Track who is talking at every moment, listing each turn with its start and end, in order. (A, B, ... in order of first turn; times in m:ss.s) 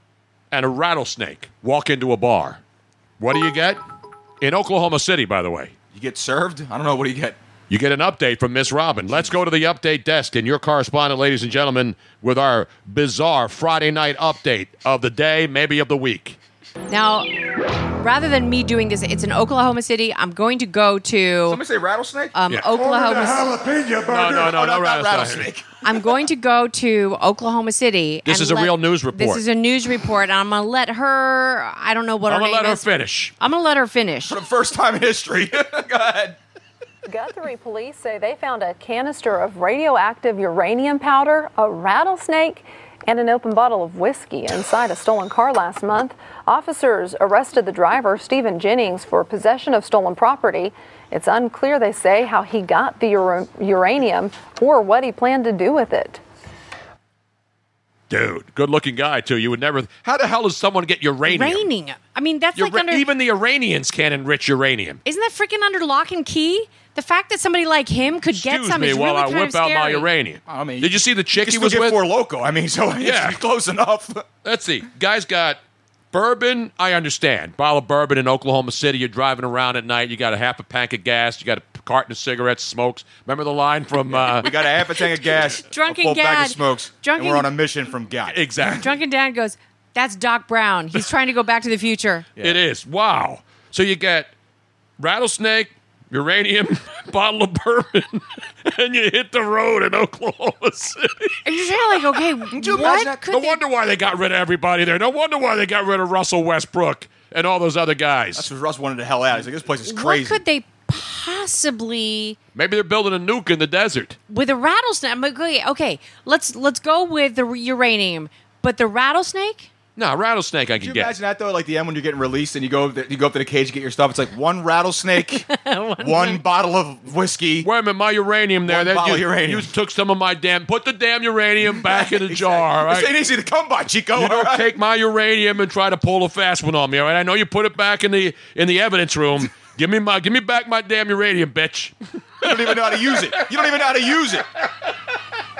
0:00.5-0:02.6 A
0:03.2-0:03.8 A
0:04.4-0:05.7 A
0:05.9-0:07.4 B
0:07.7-0:16.4 A
0:16.9-0:17.4 C
0:18.0-0:21.6 C
0:21.5-0:25.7 B
0:22.3-0:23.5 C
0:24.1-0:25.5 A
0:25.8-0:32.9 C
0:28.2-0:29.4 A
0:32.3-0:33.3 A
0:33.4-0:34.4 C
0:34.3-0:36.4 B
0:37.1-0:56.2 D
0:58.1-1:01.7 A
1:01.3-1:03.0 C
1:02.6-1:05.0 A
1:05.0-1:10.1 C
1:08.3-1:12.0 A
1:10.4-1:14.2 B
1:13.0-1:13.4 A
1:14.4-1:15.6 A
1:16.1-1:24.5 A
1:24.1-1:28.4 B
1:25.0-1:27.5 C
1:28.3-1:28.9 A
1:28.7-1:32.3 C
1:32.4-1:34.3 A
1:35.0-1:41.3 A
1:41.4-1:43.6 C
1:42.5-1:43.2 B
1:43.3-1:48.5 A
1:48.3-1:50.4 B
1:49.8-1:52.4 C
1:52.5-1:54.2 A
1:54.3-1:59.7 C
2:00.0-2:01.2 A
2:00.8-2:05.4 B
2:05.2-2:06.4 C
2:06.0-2:07.7 B
2:07.6-2:13.1 A
2:08.6-2:09.7 B
2:11.6-2:14.7 B
2:14.1-2:23.4 A
2:22.4-2:24.4 B